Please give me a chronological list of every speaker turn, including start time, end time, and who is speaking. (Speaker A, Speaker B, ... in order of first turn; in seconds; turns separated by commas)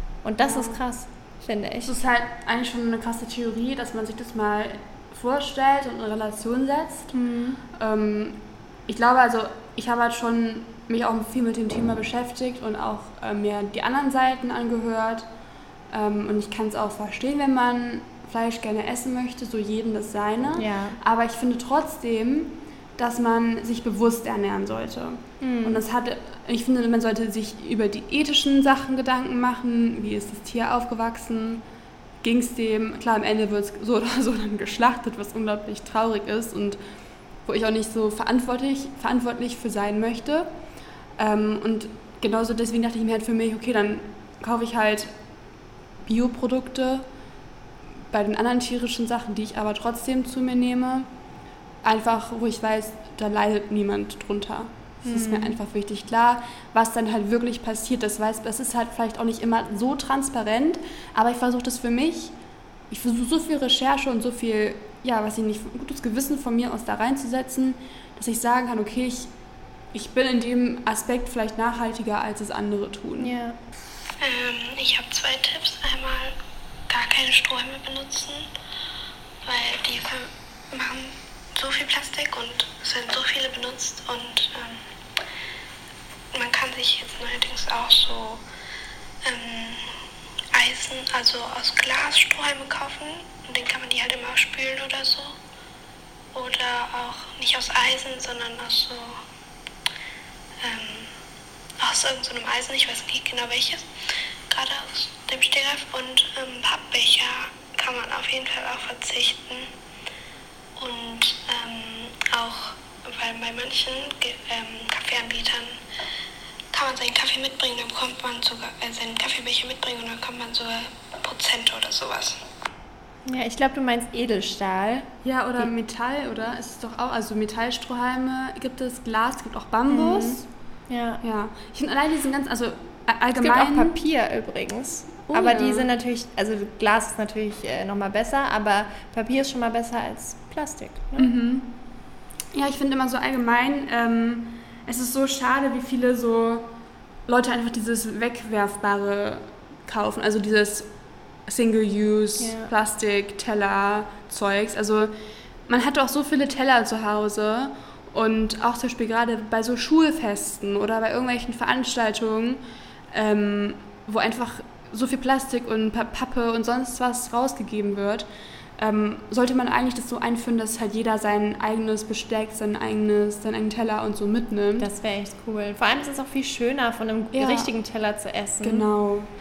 Speaker A: 0.2-1.9, Speaker B: 0.5-0.8, Speaker B: 1.8-15.3, Speaker A: 7.1-7.6, Speaker B: 15.9-31.6, Speaker A: 20.6-21.0, Speaker A: 25.4-25.8, Speaker B: 32.2-36.8, Speaker B: 37.5-40.5, Speaker B: 41.2-45.1, Speaker B: 46.0-47.0, Speaker B: 48.1-51.1, Speaker B: 51.8-62.3, Speaker A: 55.0-55.6, Speaker B: 62.9-69.3, Speaker B: 69.9-73.3, Speaker A: 73.2-73.6, Speaker C: 74.2-76.4, Speaker C: 76.9-78.5, Speaker C: 79.4-84.8, Speaker C: 86.3-88.4, Speaker C: 89.2-90.0, Speaker C: 90.5-95.4, Speaker C: 96.3-99.2, Speaker C: 100.6-101.1, Speaker C: 101.8-103.9, Speaker C: 104.5-109.7, Speaker C: 110.8-115.8, Speaker C: 116.7-122.4, Speaker A: 123.3-125.7, Speaker B: 125.2-130.4, Speaker A: 129.9-131.2, Speaker B: 131.2-134.0, Speaker A: 133.4-141.3, Speaker B: 135.3-135.9, Speaker B: 141.2-141.7, Speaker B: 142.5-146.7, Speaker B: 147.3-150.9, Speaker B: 151.5-155.1, Speaker A: 152.4-152.7, Speaker B: 155.7-162.6, Speaker B: 163.1-168.3, Speaker B: 168.8-174.9, Speaker A: 174.8-178.9, Speaker B: 177.3-177.7, Speaker B: 178.6-179.3